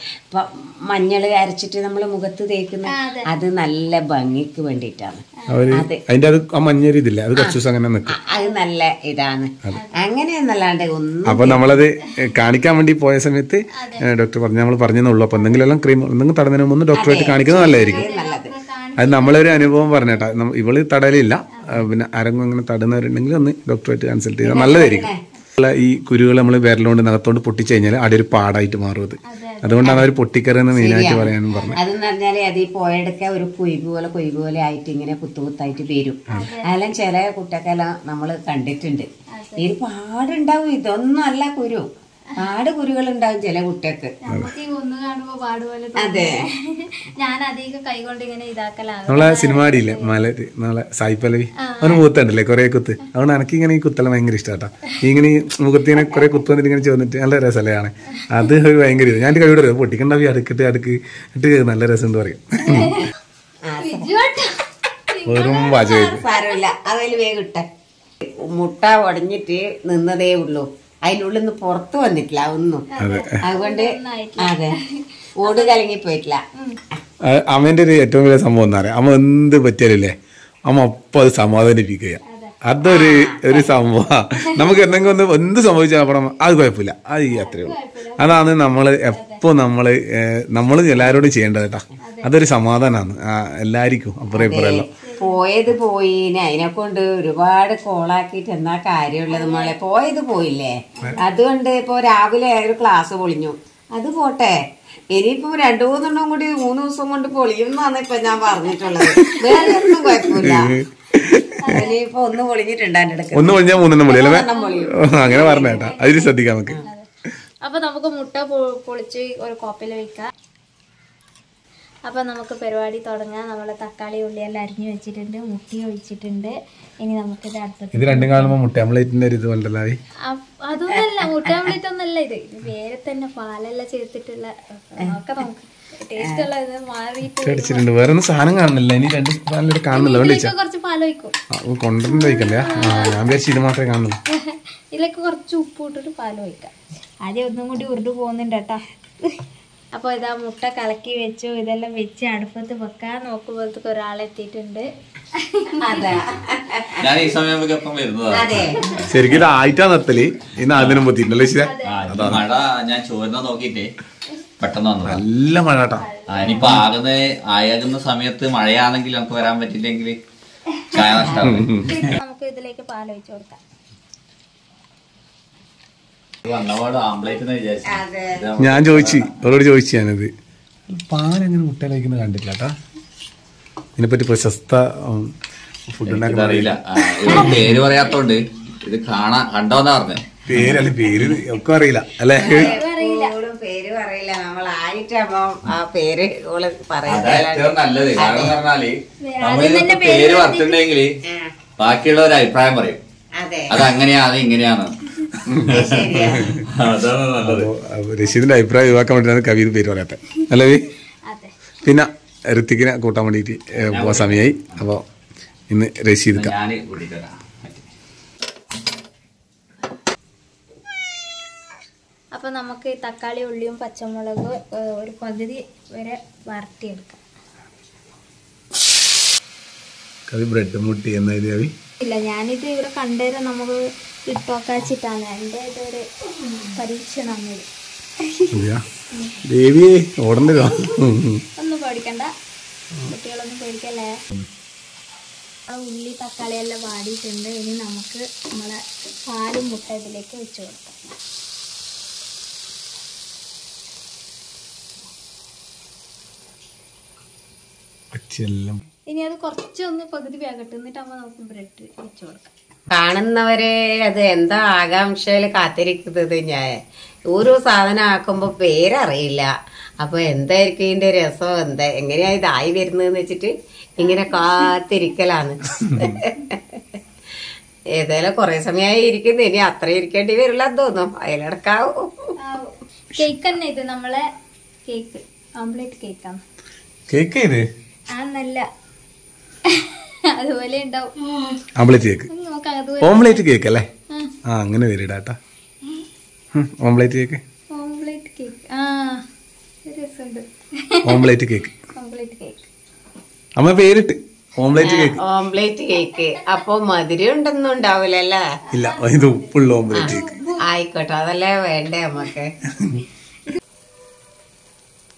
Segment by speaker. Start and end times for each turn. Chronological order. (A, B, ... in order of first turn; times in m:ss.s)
0:00.3-0:05.2 A
0:02.9-0:03.3 B
0:05.4-0:05.7 B
0:05.5-0:08.2 C
0:08.1-0:11.8 A
0:08.3-0:08.6 B
0:11.2-0:18.1 C
0:13.8-0:14.0 B
0:15.4-0:15.6 B
0:16.9-0:18.5 A
0:17.6-0:20.3 B
0:19.0-0:31.8 C
0:21.5-0:21.8 B
0:24.4-0:25.2 A
0:29.3-0:29.9 B
0:29.8-0:30.1 A
0:30.7-0:41.9 A
0:36.3-0:36.7 B
0:39.3-0:39.7 B
0:42.4-0:44.1 A
0:44.2-0:50.1 B
0:46.0-0:46.5 A
0:49.1-1:02.9 C
0:51.6-0:52.0 B
1:02.6-1:03.1 B
1:03.6-1:04.1 A
1:03.8-1:04.5 B
1:05.1-1:06.6 B
1:05.2-1:06.2 C
1:06.0-1:07.7 A
1:08.2-1:12.8 A
1:12.9-1:15.8 B
1:13.0-1:13.4 C
1:13.4-1:14.8 A
1:15.4-1:16.4 A
1:17.2-1:20.1 C
1:20.7-1:34.9 C
1:22.3-1:22.5 B
1:22.8-1:23.7 A
1:24.4-1:24.9 B
1:27.3-1:29.4 B
1:30.9-1:31.2 A
1:32.0-1:32.3 B
1:34.3-1:44.6 A
1:35.0-1:35.4 B
1:39.3-1:39.8 B
1:41.0-1:41.2 B
1:45.1-1:50.7 A
1:49.1-1:49.7 C
1:50.3-1:51.7 C
1:51.6-1:52.0 B
1:51.7-1:55.9 A
1:53.3-1:54.5 C
1:54.3-1:57.1 B
1:55.0-1:56.8 C
1:57.6-2:00.3 B
2:02.0-2:08.6 B
2:07.9-2:10.0 C
2:10.2-2:17.8 B
2:16.2-2:16.5 A
2:17.4-2:20.5 C
2:19.9-2:21.3 B
2:21.5-2:24.2 C
2:22.0-2:23.2 B
2:24.3-2:26.7 B
2:27.2-2:28.8 B
2:29.9-2:36.0 B
2:35.8-2:37.0 A
2:36.9-2:39.5 D
2:38.3-2:39.0 A
2:39.1-2:42.4 C
2:40.7-2:41.0 D
2:41.6-2:42.0 B
2:41.8-2:43.9 D
2:44.6-2:45.2 D
2:45.0-2:46.0 C
2:46.0-2:46.6 B
2:46.3-2:50.2 D
2:50.9-2:52.2 D
2:51.4-2:51.9 C
2:51.9-2:53.6 B
2:56.4-2:59.3 D
2:57.9-2:58.4 A
2:58.6-3:00.3 C
3:00.9-3:02.7 C
3:04.0-3:05.3 C
3:05.9-3:06.7 C
3:06.0-3:11.4 D
3:10.5-3:12.8 C
3:12.4-3:18.6 A
3:12.4-3:13.4 B
3:17.0-3:21.1 D
3:19.2-3:20.8 B
3:21.2-3:21.5 A
3:21.8-3:23.0 D
3:23.4-3:23.8 A
3:23.7-3:24.9 D
3:25.5-3:26.6 C
3:25.5-3:27.7 D
3:25.7-3:26.5 A
3:27.4-3:30.8 C
3:31.3-3:31.5 B
3:31.8-3:35.0 C
3:33.9-3:34.8 D
3:35.7-3:36.5 C
3:36.3-3:37.9 D
3:42.3-3:47.2 B
3:50.3-3:51.7 C
3:52.0-3:57.6 B
3:58.2-3:58.5 B
3:58.5-3:58.8 C
3:59.1-3:59.4 B
3:59.4-4:01.4 C
4:01.6-4:02.3 B
4:03.0-4:04.1 B
4:05.7-4:10.9 B
4:18.1-4:18.8 C
4:19.1-4:22.5 B
4:22.9-4:26.8 A
4:27.3-4:36.8 A
4:34.0-4:34.7 B
4:35.8-4:36.2 C
4:37.9-4:42.3 A
4:42.4-4:44.2 B
4:44.8-4:46.4 B
4:47.1-4:47.6 C
4:48.1-4:48.6 B
4:49.7-4:51.1 B
4:51.8-4:52.3 C
4:52.3-4:53.5 B
4:53.0-4:53.9 C
4:54.4-4:55.4 C
4:56.5-4:57.4 C
4:57.7-4:59.2 B
4:59.9-5:01.2 B
5:01.0-5:01.7 C
5:01.9-5:02.7 B
5:03.6-5:05.2 C
5:04.7-5:08.4 A
5:05.9-5:06.6 B
5:08.7-5:10.6 B
5:08.7-5:10.3 C
5:10.7-5:12.5 A